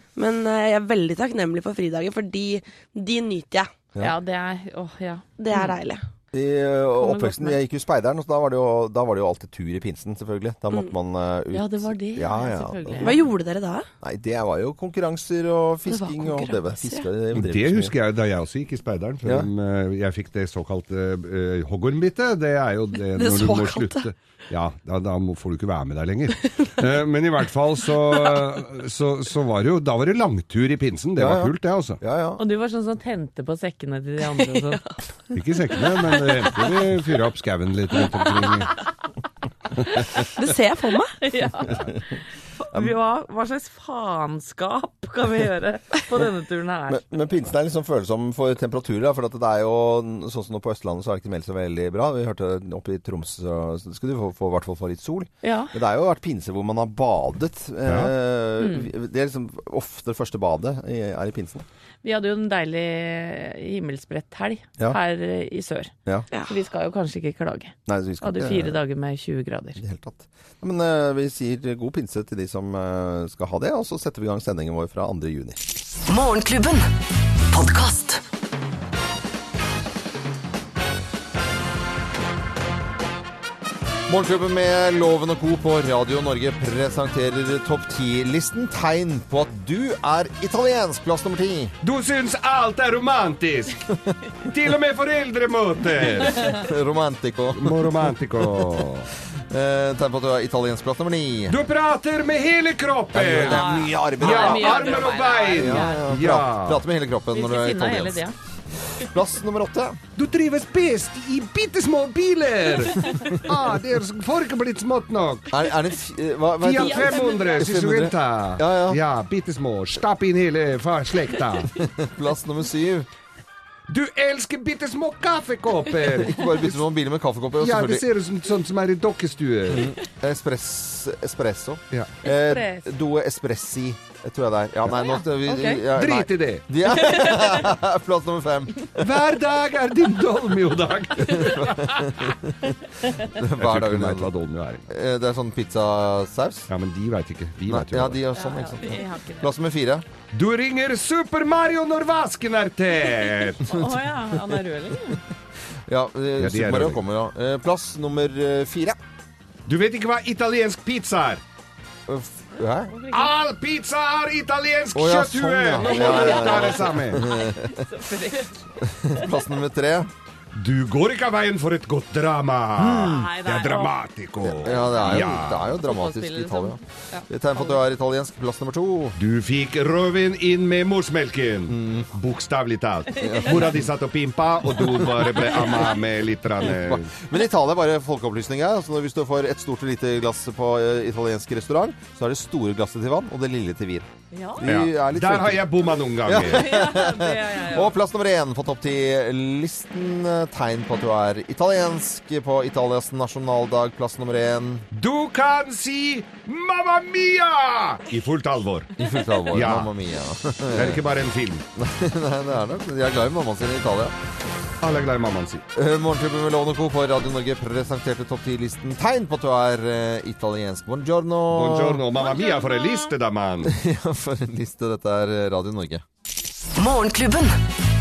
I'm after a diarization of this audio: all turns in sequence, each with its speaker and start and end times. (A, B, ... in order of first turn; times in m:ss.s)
0:00.2-0:03.7 A
0:04.0-0:05.8 B
0:05.4-0:06.0 A
0:06.3-0:13.2 C
0:07.0-0:07.6 B
0:11.5-0:13.2 B
0:13.0-0:13.9 A
0:14.0-0:18.0 C
0:15.9-0:17.1 A
0:17.3-0:32.0 D
0:23.2-0:24.1 A
0:31.2-0:32.4 C
0:32.4-0:34.8 B
0:34.4-0:34.9 A
0:35.3-0:38.7 D
0:35.8-0:36.8 A
0:40.1-0:41.2 A
0:41.2-0:41.7 B
0:42.6-0:47.0 B
0:46.9-1:01.7 C
0:55.4-0:55.7 B
0:57.9-0:58.1 D
0:58.6-0:58.9 B
1:02.0-1:05.9 B
1:06.5-1:09.8 B
1:07.9-1:08.8 C
1:09.8-1:15.6 C
1:16.1-1:16.9 E
1:17.5-1:18.2 E
1:24.1-1:31.7 C
1:31.8-1:33.9 D
1:34.4-1:36.6 D
1:36.4-1:38.8 C
1:37.6-1:39.1 D
1:39.4-1:41.6 C
1:41.5-1:46.8 D
1:43.1-1:44.7 C
1:43.4-1:46.0 B
1:45.5-1:48.2 C
1:47.3-1:48.4 B
1:48.9-1:50.0 C
1:50.2-1:55.5 D
1:53.0-1:53.3 B
1:55.5-1:59.0 C
1:56.6-2:01.7 D
1:57.1-1:57.6 B
2:01.8-2:03.1 C
2:03.9-2:06.5 D
2:06.2-2:08.0 C
2:07.6-2:10.0 D
2:09.7-2:19.2 C
2:12.2-2:12.9 B
2:15.1-2:15.8 B
2:15.9-2:16.6 D
2:16.9-2:17.6 B
2:19.0-2:21.8 D
2:21.3-2:22.4 C
2:21.4-2:21.9 B
2:23.3-2:24.3 C
2:23.6-2:24.8 D
2:24.9-2:26.7 C
2:26.7-2:28.2 D
2:27.7-2:30.1 C
2:28.4-2:29.5 B
2:30.3-2:33.6 D
2:33.7-2:35.2 B
2:35.9-2:39.0 C
2:36.4-2:37.0 D
2:39.7-2:41.4 D
2:42.1-2:42.9 C
2:42.9-2:43.3 B
2:43.1-2:47.3 D
2:45.0-2:47.8 C
2:45.8-2:48.7 B
2:48.8-2:50.1 C
2:50.6-2:55.7 D
2:52.8-2:53.2 C
2:53.0-2:54.0 B
2:54.4-2:59.2 C
2:54.6-2:57.8 B
2:59.2-3:07.1 D
3:01.7-3:02.1 C
3:03.2-3:03.7 C
3:04.8-3:05.4 C
3:06.7-3:14.1 C
3:14.3-3:14.6 B
3:14.6-3:24.9 C
3:14.6-3:16.7 D
3:16.4-3:17.9 B
3:24.9-3:28.9 D
3:29.0-3:31.0 C
3:29.5-3:29.9 D
3:30.7-3:31.6 D
3:31.8-3:34.2 C
3:34.8-3:35.6 D
3:35.7-3:42.0 C
3:41.5-3:43.7 D
3:43.6-3:46.0 C
3:46.8-3:47.6 E